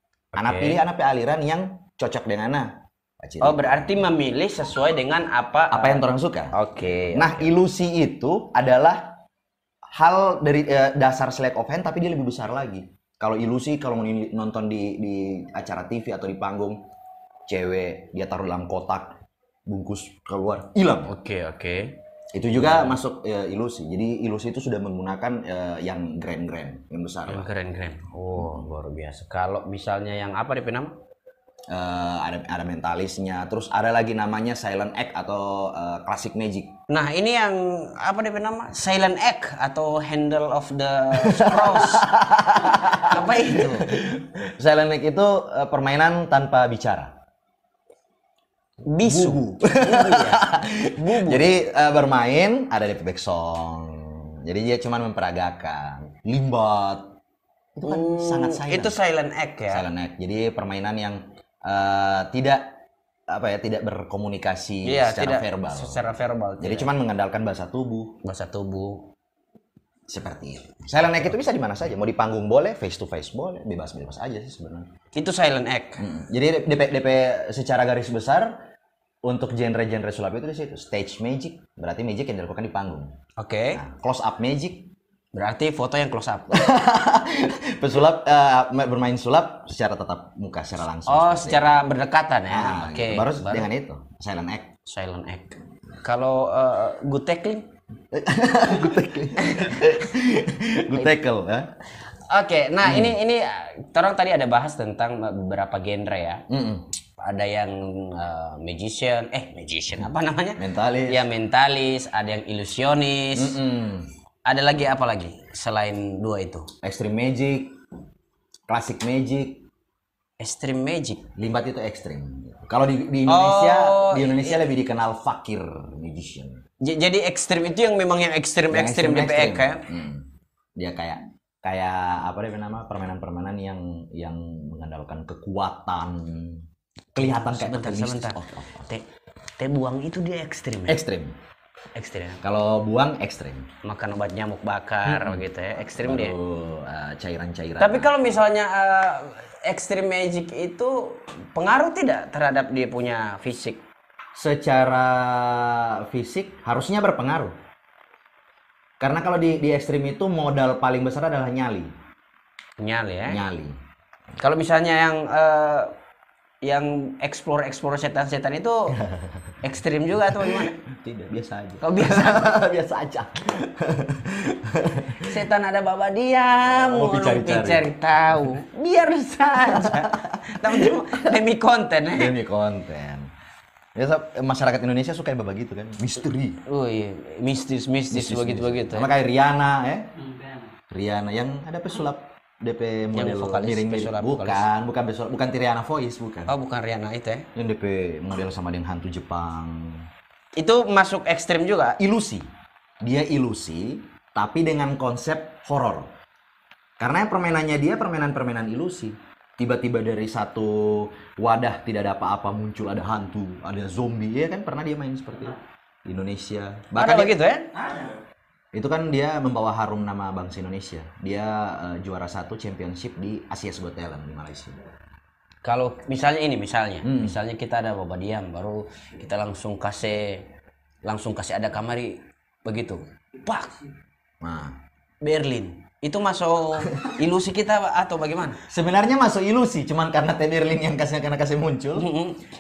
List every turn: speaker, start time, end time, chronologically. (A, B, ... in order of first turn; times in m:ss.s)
0:00.3-0:00.8 A
0:00.3-0:04.1 B
0:03.4-0:07.5 A
0:05.7-0:06.5 B
0:07.1-0:09.2 B
0:09.9-0:16.8 B
0:17.5-0:19.2 B
0:19.7-0:21.1 B
0:21.1-0:22.0 A
0:22.3-0:27.5 B
0:22.5-0:23.0 A
0:27.3-0:31.0 A
0:31.7-0:36.7 B
0:36.9-0:42.1 A
0:41.1-0:47.1 B
0:42.6-0:44.0 A
0:48.8-0:50.4 A
0:49.0-0:57.1 B
0:51.0-0:51.5 A
0:57.8-0:59.0 B
0:57.8-0:59.9 A
0:59.7-1:02.8 B
1:03.3-1:08.2 B
1:04.8-1:06.9 A
1:08.2-1:09.1 A
1:10.1-1:14.9 B
1:15.1-1:16.0 A
1:16.0-1:18.6 B
1:19.2-1:23.1 B
1:23.4-1:23.8 A
1:23.7-1:24.9 B
1:25.3-1:26.6 A
1:26.5-1:31.7 B
1:31.0-1:33.7 A
1:32.5-1:34.7 B
1:34.8-1:37.6 A
1:38.1-1:41.7 B
1:39.4-1:39.8 A
1:42.3-1:46.4 A
1:42.8-1:43.2 B
1:46.5-1:46.8 B
1:47.2-1:53.6 A
1:50.6-1:51.3 B
1:53.3-1:54.1 B
1:54.4-1:56.7 A
1:56.8-1:57.7 B
1:58.7-1:59.6 B
2:00.4-2:01.2 A
2:01.4-2:06.6 B
2:03.3-2:04.7 A
2:06.8-2:09.8 A
2:08.7-2:16.6 B
2:17.1-2:18.9 B
2:17.2-2:19.0 A
2:19.6-2:21.0 A
2:20.9-2:21.4 B
2:22.0-2:22.4 A
2:22.4-2:23.7 B
2:23.8-2:26.3 A
2:25.0-2:28.4 B
2:27.8-2:33.8 A
2:34.3-2:37.5 B
2:39.0-2:41.9 B
2:42.8-2:43.4 A
2:43.2-2:43.8 B
2:44.4-2:45.9 A
2:46.6-2:49.0 A
2:48.9-2:49.6 B
2:49.6-2:50.8 A
2:50.2-2:55.4 B
2:51.8-2:52.6 A
2:55.1-3:02.3 A
2:56.6-2:57.9 B
2:59.4-3:01.4 B
3:02.1-3:03.3 B
3:04.0-3:06.6 B
3:06.7-3:09.1 A
3:08.1-3:10.1 B
3:10.9-3:16.5 B
3:13.1-3:14.6 A
3:16.5-3:17.5 A
3:17.5-3:20.1 B
3:20.6-3:22.0 A
3:22.0-3:22.5 B
3:23.0-3:26.1 B
3:27.0-3:37.4 B
3:36.9-3:37.7 A
3:38.7-3:44.8 B
3:45.6-3:50.5 A
3:47.0-3:47.4 B
3:51.0-3:53.8 A
3:54.4-3:54.8 B
3:55.2-3:58.6 A
3:58.6-4:02.1 B
4:02.0-4:02.4 A